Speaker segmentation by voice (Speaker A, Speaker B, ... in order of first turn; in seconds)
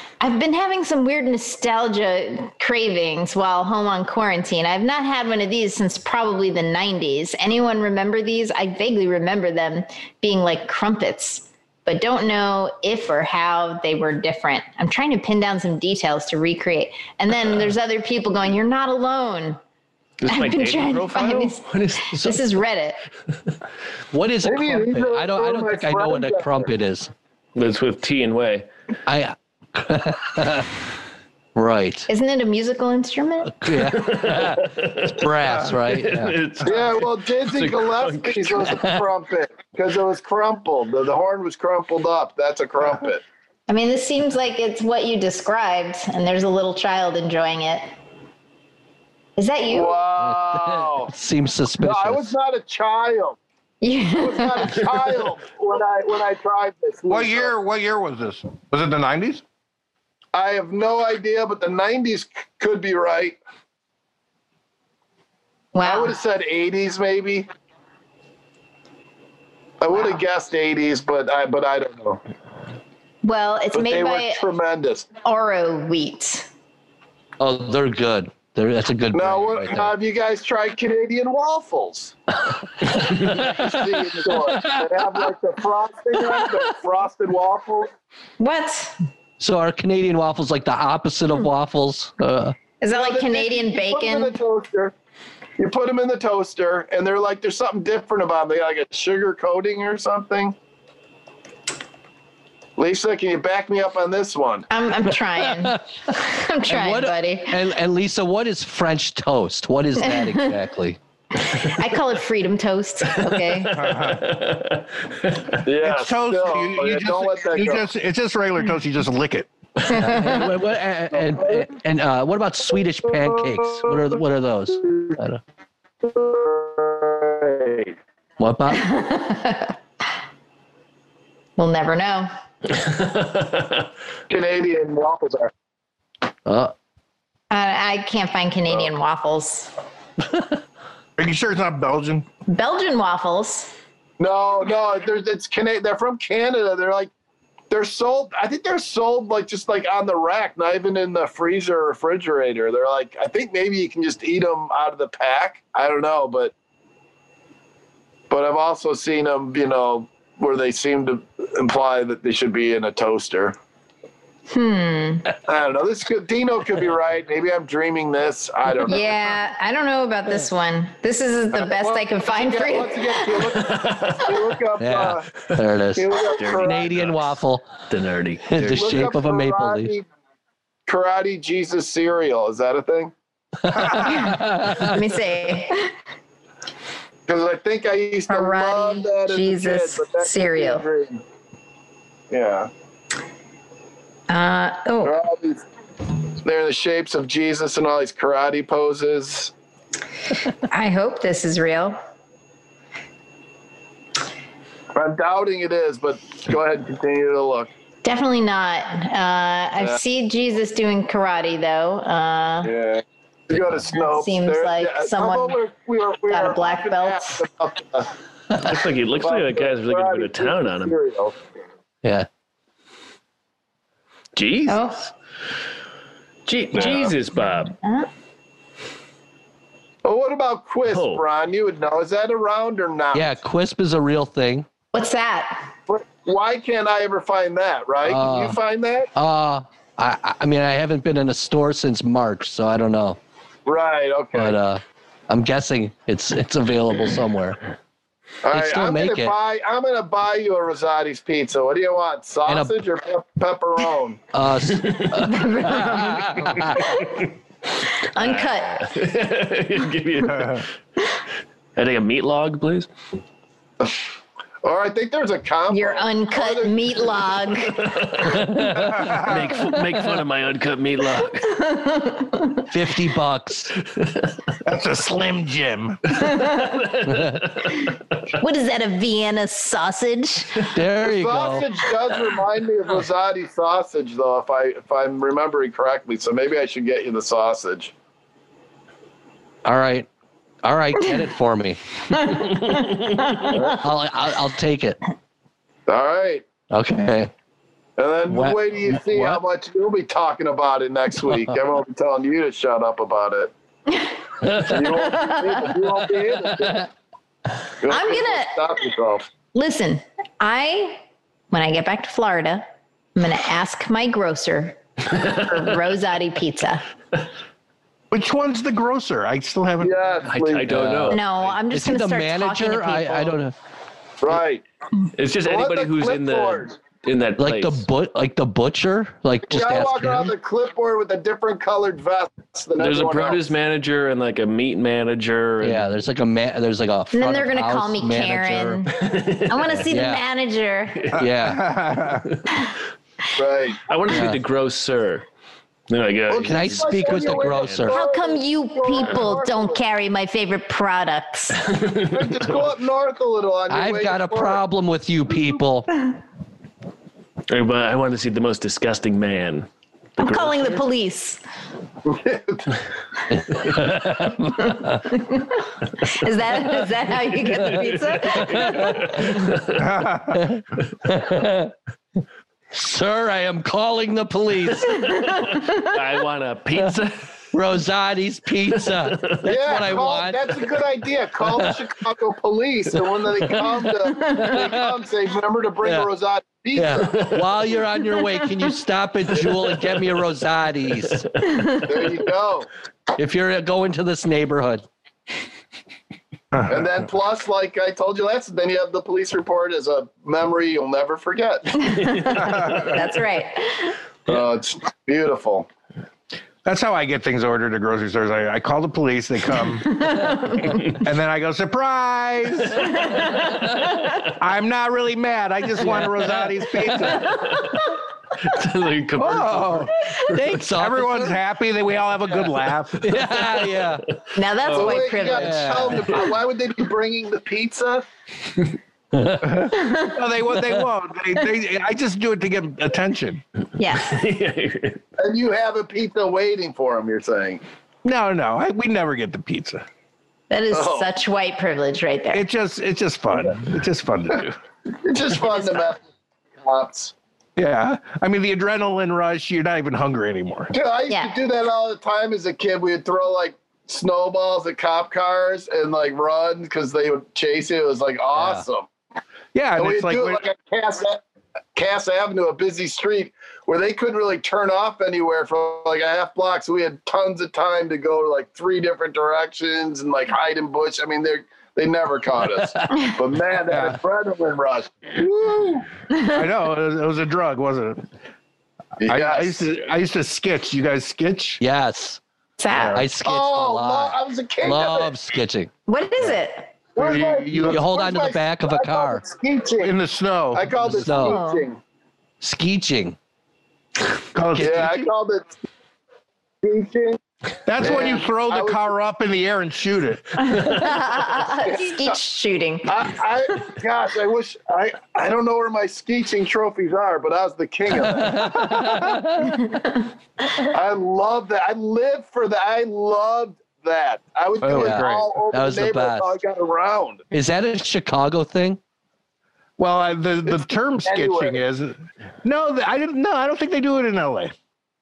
Speaker A: 0.2-19.6, 20.3-23.0, 32.1-33.6, 43.7-47.9, 49.4-50.0, 53.8-54.8, 65.7-66.2, 73.2-74.4, 75.2-76.5, 88.4-89.0, 92.8-94.3, 104.7-107.6, 110.0-110.5, 111.3-113.8, 119.9-120.4, 128.7-129.7, 131.6-132.3, 137.5-139.7, 142.5-143.7, 164.5-165.3, 168.8-173.5, 184.0-185.9, 188.3-190.8, 194.3-195.2, 200.7-202.0, 208.0-212.7, 214.0-215.6, 216.3-217.4, 224.7-225.0, 226.4-227.1, 227.8-228.1, 234.9-235.7, 255.1-256.8, 258.1-258.9, 265.7-267.9, 271.4-272.6, 277.9-280.7, 292.3-293.6, 304.8-305.7, 307.9-308.5, 309.5-316.8, 321.1-323.4, 337.1-341.2, 347.9-351.7, 360.2-361.4, 364.6-369.4, 374.9-376.0, 391.6-391.8, 401.8-404.0, 409.9-410.8, 413.0-413.7, 424.3-425.9, 429.7-430.1, 433.8-434.2, 440.5-442.4, 445.6-445.9, 451.1-451.4, 482.6-483.0, 485.9-486.8, 491.2-491.6, 500.4-503.0, 509.5-510.1
Speaker B: 20.2-22.4, 27.5-28.7, 33.8-38.8, 113.1-115.6, 132.7-133.8, 173.6-174.4, 176.3-177.3, 177.9-179.0, 218.6-220.9, 224.3-225.1, 226.7-227.7, 230.8-231.2, 254.7-255.2, 256.6-257.3, 258.2-260.7, 261.8-262.9, 267.8-271.6, 274.0-274.3, 276.2-277.8, 292.5-293.4, 320.2-321.2, 325.1-327.8, 332.8-335.9, 338.9-339.9, 340.9-341.2, 342.0-342.6, 343.9-345.2, 345.9-348.0, 351.6-352.5, 357.5-360.8, 367.6-369.9, 375.8-377.3, 378.8-379.4, 391.2-391.6, 417.1-420.6, 423.1-424.1, 434.0-435.0
Speaker C: 24.1-27.1, 29.1-30.7, 31.5-32.1, 33.5-36.4, 50.3-52.3, 77.4-79.9, 84.5-84.8, 89.4-92.5, 105.4-105.8, 106.7-111.0, 119.8-125.4, 128.4-129.0, 136.4-136.7, 174.8-177.7, 178.5-179.9, 183.6-185.0, 233.1-234.7, 238.0-238.6, 239.1-243.2, 244.3-247.6, 248.5-249.3, 252.5-252.7, 254.3-256.8, 272.7-273.7, 277.1-277.4, 280.7-281.6, 289.6-290.1, 290.6-292.3, 293.6-295.0, 296.7-297.3, 298.3-299.4, 320.7-323.5, 327.4-330.3, 335.6-338.9, 339.9-340.2, 341.2-341.7, 344.1-344.4, 346.4-348.0, 353.7-355.9, 363.3-365.0, 368.6-368.9, 370.4-371.7, 372.7-375.1, 377.5-380.5, 381.5-381.8, 384.5-384.8, 385.8-386.1, 386.7-391.2, 393.1-394.8, 415.8-416.1, 420.2-421.4, 423.0-424.0, 425.2-426.1, 429.2-429.5, 458.3-458.6, 481.6-482.2, 482.9-485.7, 487.6-489.2, 490.8-491.4, 492.4-493.2, 508.0-509.6, 514.7-516.3, 517.3-518.8
Speaker D: 24.4-26.7, 36.6-43.2, 49.6-51.1, 51.8-53.4, 54.2-57.5, 60.3-63.4, 65.8-67.5, 69.8-72.2, 73.7-75.1, 79.1-82.2, 82.9-87.9, 92.9-94.9, 95.6-100.5, 102.8-104.7, 115.6-117.8, 126.0-127.9, 134.3-135.5, 144.2-147.1, 147.7-156.5, 158.3-163.6, 165.4-169.3, 171.5-175.3, 175.9-176.9, 178.6-180.1, 180.9-183.1, 187.3-191.2, 192.3-192.7, 195.0-195.6, 196.4-199.5, 204.9-207.7, 212.6-218.1, 219.2-221.4, 226.8-227.1, 230.0-233.3, 235.9-239.1, 243.7-244.6, 248.4-254.2, 264.6-267.5, 281.0-287.9, 293.5-293.8, 295.9-296.4, 298.0-303.5, 304.5-306.9, 307.8-309.3, 319.8-320.7, 324.2-324.6, 325.4-326.7, 329.5-333.5, 343.4-343.8, 346.3-349.8, 352.0-354.6, 362.0-362.7, 379.4-387.4, 391.8-392.7, 396.7-402.3, 404.2-405.7, 424.6-428.1, 435.2-437.6, 440.7-441.1, 444.9-446.0, 446.6-447.1, 450.7-458.9, 459.8-461.2, 461.7-475.9, 479.0-479.7, 483.2-485.1, 486.9-489.9, 490.5-491.8, 494.6-495.5, 496.6-497.2, 497.8-498.9, 501.6-502.2, 502.8-508.6, 510.6-517.2, 521.0-521.6
Speaker E: 57.1-59.4, 113.7-114.3, 115.8-119.5, 141.2-142.2, 260.3-260.6, 268.8-269.5, 274.6-276.0, 318.1-320.1, 341.2-342.3, 369.8-370.6, 402.4-402.9, 406.6-410.1, 410.9-413.0, 414.4-417.4, 419.2-419.9, 420.7-423.1, 429.4-433.4, 438.0-439.8, 442.3-444.6, 447.6-450.7, 459.5-460.4, 473.7-474.0, 476.2-478.1, 479.0-481.6, 482.7-483.0, 487.0-487.9, 489.8-490.7, 494.3-495.1, 497.6-500.4, 508.6-509.1, 514.6-515.3, 519.8-524.5